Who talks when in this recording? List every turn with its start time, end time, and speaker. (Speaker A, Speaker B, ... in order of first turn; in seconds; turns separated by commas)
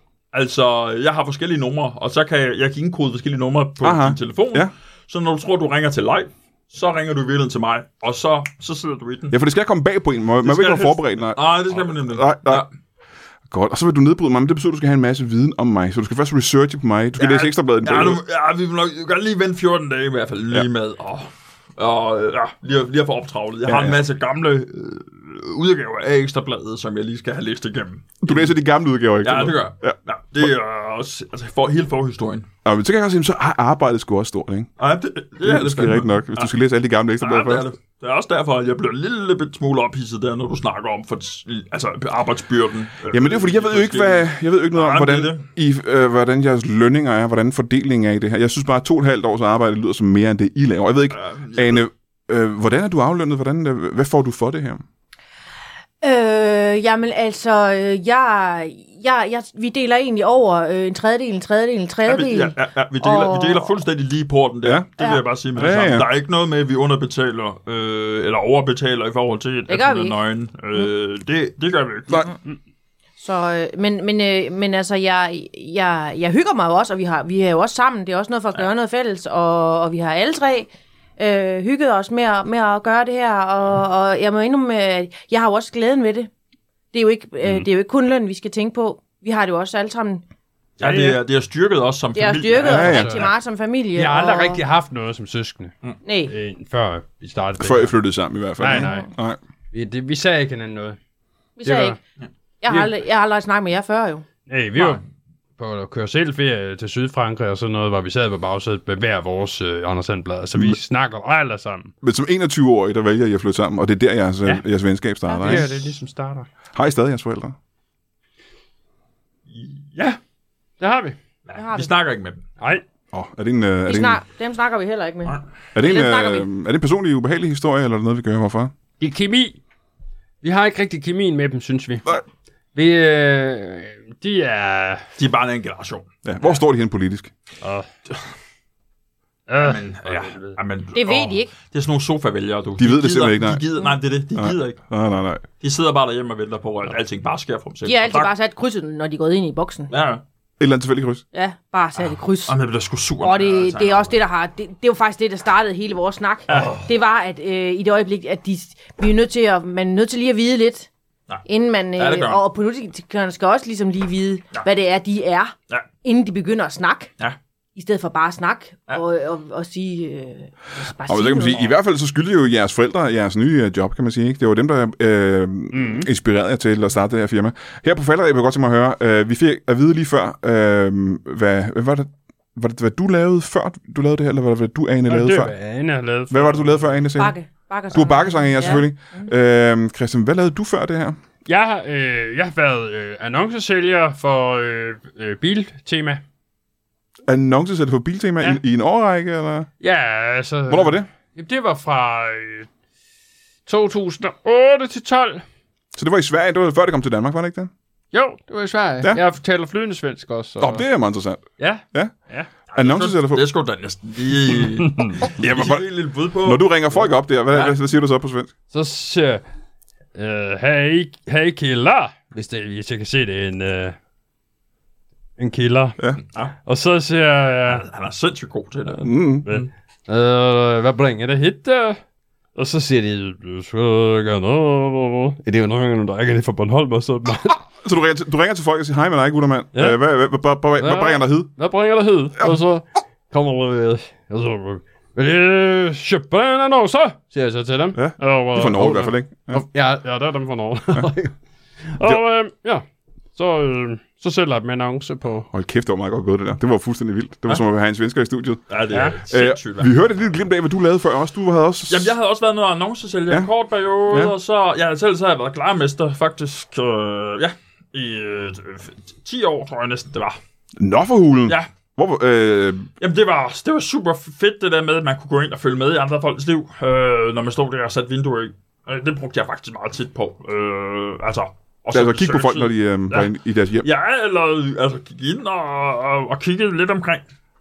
Speaker A: 0.3-9.4, Speaker B: 3.8-4.7, Speaker B: 9.3-12.7, Speaker A: 10.4-12.7, Speaker B: 13.5-18.2, Speaker A: 17.2-28.5, Speaker B: 23.6-24.0, Speaker B: 28.2-30.0, Speaker A: 29.2-32.5, Speaker B: 32.6-34.7, Speaker A: 34.8-36.5, Speaker B: 35.4-37.7, Speaker A: 37.2-45.5, Speaker B: 43.1-54.8, Speaker A: 51.1-51.8, Speaker C: 56.0-63.7, Speaker A: 62.1-72.3, Speaker B: 64.6-66.1, Speaker C: 69.7-70.2, Speaker C: 73.2-86.3, Speaker C: 86.9-90.2, Speaker A: 90.8-93.0, Speaker D: 90.8-91.2, Speaker C: 92.2-94.6, Speaker D: 92.6-93.3, Speaker B: 92.7-93.2, Speaker D: 94.0-95.7, Speaker C: 96.0-96.3, Speaker D: 96.3-97.9, Speaker B: 97.6-99.4, Speaker D: 98.6-99.1, Speaker C: 98.7-99.1, Speaker D: 99.7-101.0, Speaker C: 101.6-102.0, Speaker D: 101.6-102.0, Speaker C: 102.6-104.2, Speaker D: 104.5-105.0, Speaker A: 104.8-105.0, Speaker D: 105.6-111.9, Speaker B: 112.0-115.8, Speaker C: 115.3-115.6, Speaker D: 115.4-116.5, Speaker B: 116.8-117.5, Speaker A: 119.5-120.2, Speaker D: 120.8-121.2, Speaker A: 121.5-122.4, Speaker C: 121.5-121.9, Speaker B: 123.1-124.2, Speaker C: 123.9-126.5, Speaker B: 125.8-128.7, Speaker D: 129.0-129.6, Speaker D: 130.4-132.2, Speaker D: 132.8-135.0, Speaker A: 135.2-136.1, Speaker B: 136.2-137.3, Speaker D: 137.6-137.9, Speaker D: 139.5-140.6, Speaker A: 139.6-144.8, Speaker C: 140.9-141.5, Speaker B: 142.8-143.7, Speaker B: 144.3-145.4, Speaker A: 145.6-148.3, Speaker C: 147.8-149.9, Speaker A: 149.9-150.2, Speaker B: 150.6-151.2, Speaker C: 151.3-152.6, Speaker A: 152.5-154.1, Speaker C: 153.2-160.9, Speaker A: 156.5-156.9, Speaker C: 161.5-165.5, Speaker A: 162.0-162.4, Speaker C: 166.0-167.1, Speaker C: 167.8-171.7, Speaker B: 171.1-185.5, Speaker D: 175.7-176.1, Speaker D: 185.1-186.9, Speaker B: 186.3-187.3, Speaker C: 187.2-189.3, Speaker B: 187.9-191.2, Speaker D: 191.5-196.2, Speaker B: 197.3-199.7, Speaker D: 199.8-202.7, Speaker B: 200.7-201.1, Speaker D: 203.7-205.4, Speaker B: 206.0-207.7, Speaker D: 208.1-210.8, Speaker B: 210.6-212.1, Speaker D: 211.6-212.5, Speaker A: 212.7-216.7, Speaker B: 212.7-213.4, Speaker D: 214.9-215.2, Speaker B: 215.4-215.9, Speaker B: 216.4-218.5, Speaker D: 218.7-219.4, Speaker D: 220.2-224.0, Speaker D: 225.4-226.0, Speaker D: 226.7-227.8, Speaker A: 227.7-229.7, Speaker B: 229.0-229.5, Speaker D: 229.5-232.0, Speaker D: 232.6-237.6, Speaker B: 237.8-241.5, Speaker D: 240.8-251.3, Speaker B: 248.0-249.6, Speaker D: 251.9-255.5, Speaker B: 255.5-258.7, Speaker A: 258.7-260.0, Speaker D: 258.9-259.2, Speaker B: 259.3-262.1, Speaker A: 261.9-270.4, Speaker B: 270.8-272.9, Speaker A: 273.0-287.2, Speaker B: 281.9-283.9